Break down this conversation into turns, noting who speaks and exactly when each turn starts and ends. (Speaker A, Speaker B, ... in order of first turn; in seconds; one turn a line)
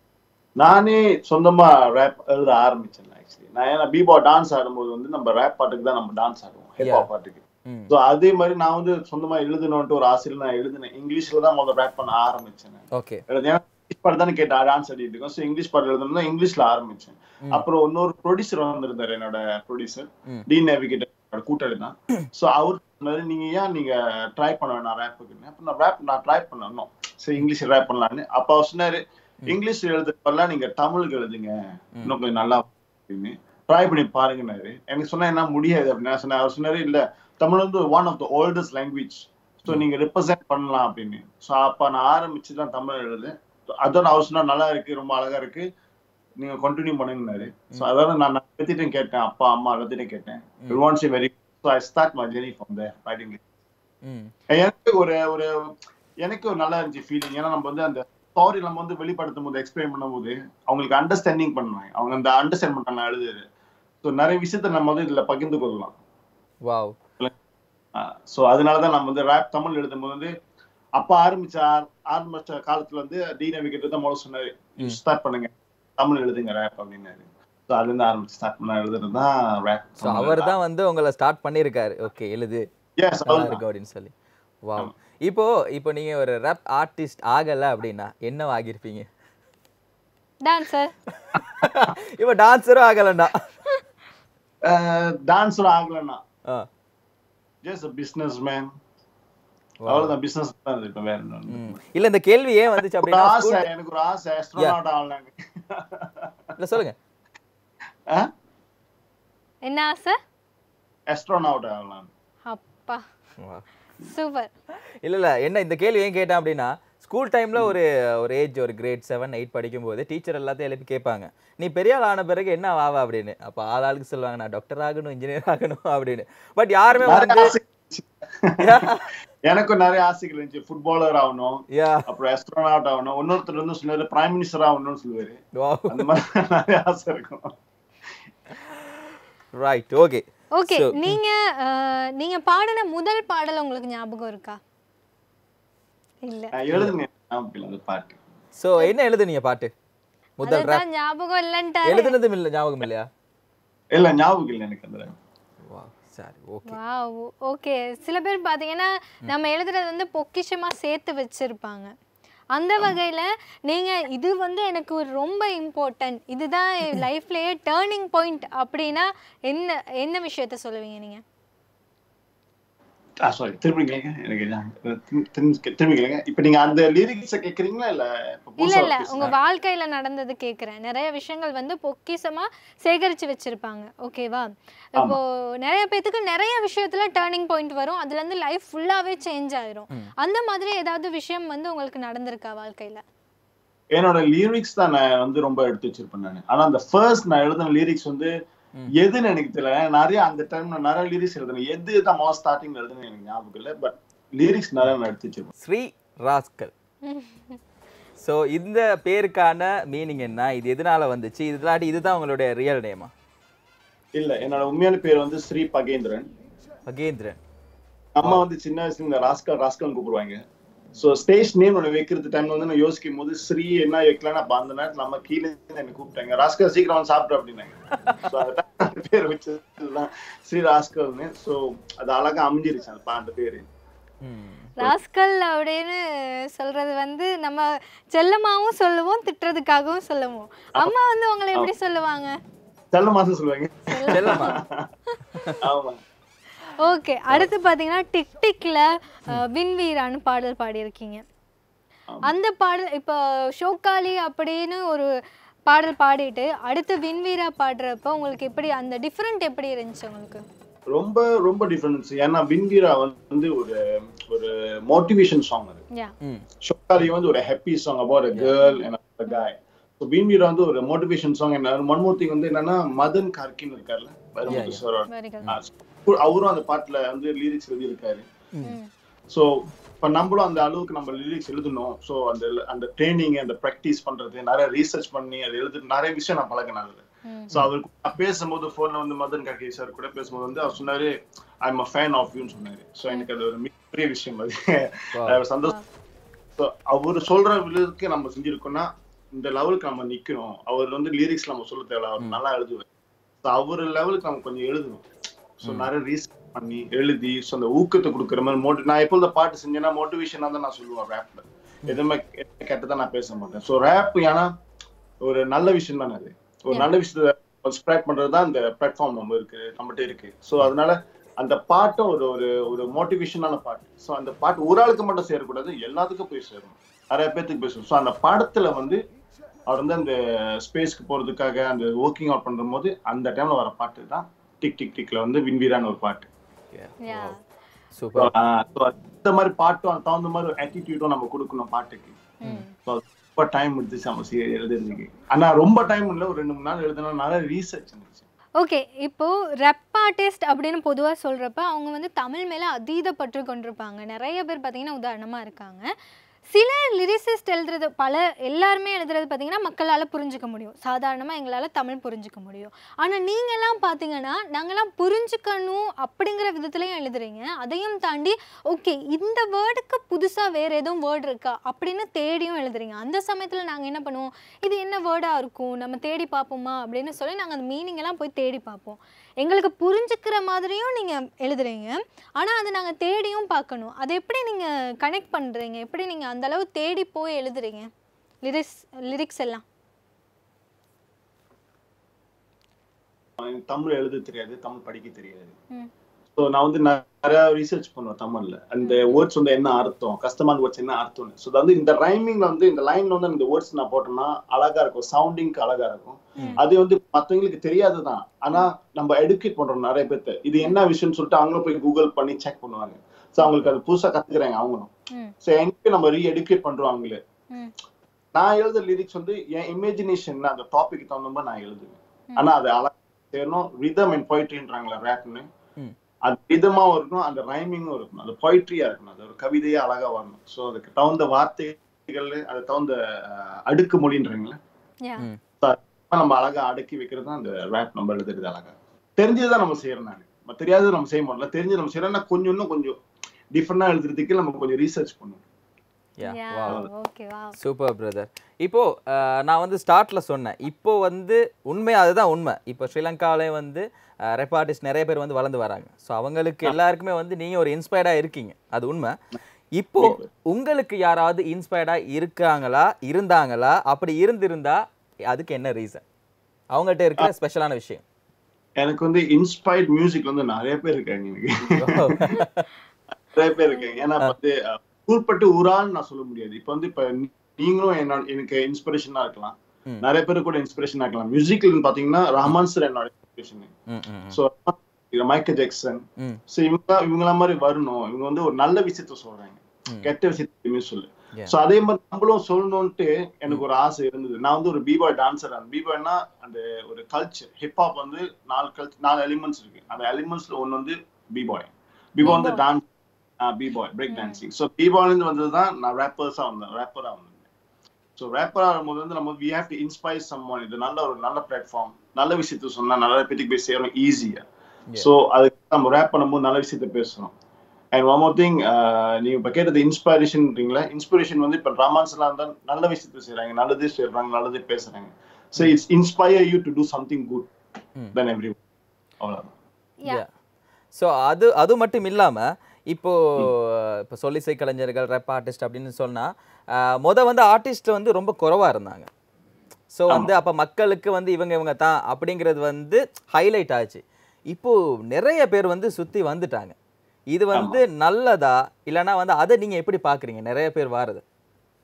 Speaker A: 0.6-43.3
Speaker B: 6.8-7.1
Speaker B: 7.7-7.9
Speaker B: 12.9-13.2
Speaker A: 43.8-45.6
Speaker A: 46.4-53.4
Speaker B: 54.0-54.3
Speaker A: 54.5-55.5
Speaker A: 56.2-63.4
Speaker A: 64.0-66.0
Speaker B: 66.7-67.0
Speaker A: 68.0-70.3
Speaker A: 71.0-80.6
Speaker B: 80.0-82.6
Speaker A: 83.0-83.6
Speaker B: 83.3-84.1
Speaker B: 84.6-89.1
Speaker C: 90.4-90.9
Speaker B: 91.3-93.4
Speaker A: 94.7-96.2
Speaker A: 97.6-98.7
Speaker B: 99.8-100.1
Speaker A: 99.9-101.8
Speaker B: 101.5-103.7
Speaker A: 103.0-106.3
Speaker B: 106.6-107.0
Speaker C: 109.6-110.2
Speaker A: 111.1-112.1
Speaker C: 112.5-113.0
Speaker C: 114.0-114.5
Speaker B: 115.0-127.5
Speaker A: 127.0-128.5
Speaker B: 128.6-129.1
Speaker A: 129.5-137.5
Speaker B: 131.7-132.1
Speaker B: 135.6-136.1
Speaker B: 139.6-141.2
Speaker C: 140.6-144.6
Speaker C: 146.2-146.5
Speaker A: 146.5-148.2
Speaker B: 148.6-149.7
Speaker B: 150.4-150.8
Speaker C: 150.4-152.2
Speaker B: 151.9-153.1
Speaker A: 153.9-155.2
Speaker B: 155.6-156.8
Speaker C: 156.7-161.9
Speaker C: 162.6-171.2
Speaker A: 173.2-179.3
Speaker C: 178.6-193.0
Speaker A: 193.9-198.3
Speaker A: 199.0-205.5
Speaker B: 205.6-206.7
Speaker C: 207.1-207.6
Speaker B: 208.2-213.1
Speaker A: 214.2-216.3
Speaker B: 216.9-217.4
Speaker A: 218.2-220.4
Speaker A: 221.0-227.8
Speaker A: 228.3-233.7
Speaker B: 234.2-234.7
Speaker C: 234.8-236.0
Speaker C: 236.6-242.3
Speaker A: 242.9-244.9
Speaker C: 243.9-244.6
Speaker B: 244.1-244.6
Speaker A: 245.6-246.0
Speaker C: 246.8-251.2
Speaker C: 252.3-255.1
Speaker C: 255.7-260.4
Speaker A: 260.9-263.8
Speaker A: 264.3-265.8
Speaker A: 266.6-278.2
Speaker C: 268.6-269.4
Speaker C: 274.5-275.5
Speaker B: 274.5-274.8
Speaker C: 278.6-278.9
Speaker A: 280.0-291.1
Speaker C: 287.3-287.5
Speaker A: 291.6-295.8
Speaker B: 295.1-295.4
Speaker A: 296.6-302.9
Speaker A: 303.4-305.0
Speaker A: 305.6-314.5
Speaker B: 305.6-305.9
Speaker A: 315.2-329.0
Speaker A: 329.7-336.3
Speaker B: 336.7-337.3
Speaker C: 337.0-337.4
Speaker B: 337.9-338.3
Speaker A: 338.1-342.2
Speaker C: 342.4-342.7
Speaker A: 342.9-348.2
Speaker C: 348.6-355.8
Speaker C: 356.5-387.9
Speaker C: 388.4-389.6
Speaker A: 393.4-395.5
Speaker A: 396.4-414.9
Speaker A: 415.4-417.2
Speaker A: 418.3-425.4
Speaker A: 426.3-434.6
Speaker A: 435.6-442.9
Speaker A: 443.5-445.4
Speaker B: 446.2-446.8
Speaker C: 446.2-447.5
Speaker B: 447.6-453.8
Speaker B: 454.4-459.1
Speaker B: 459.8-466.0
Speaker A: 460.0-460.3
Speaker B: 466.7-468.0
Speaker A: 468.8-472.0
Speaker B: 471.8-472.7
Speaker A: 473.3-483.7
Speaker C: 473.7-474.1
Speaker B: 483.9-484.4
Speaker A: 484.3-486.0
Speaker A: 486.5-502.9
Speaker C: 502.2-502.6
Speaker A: 503.4-507.4
Speaker C: 504.1-504.4
Speaker A: 508.2-514.4
Speaker A: 515.0-517.3
Speaker A: 517.9-527.5
Speaker A: 528.1-528.6
Speaker A: 529.2-529.5
Speaker B: 531.0-536.3
Speaker B: 537.0-539.1
Speaker B: 539.9-546.8
Speaker B: 547.3-551.2
Speaker A: 547.5-547.8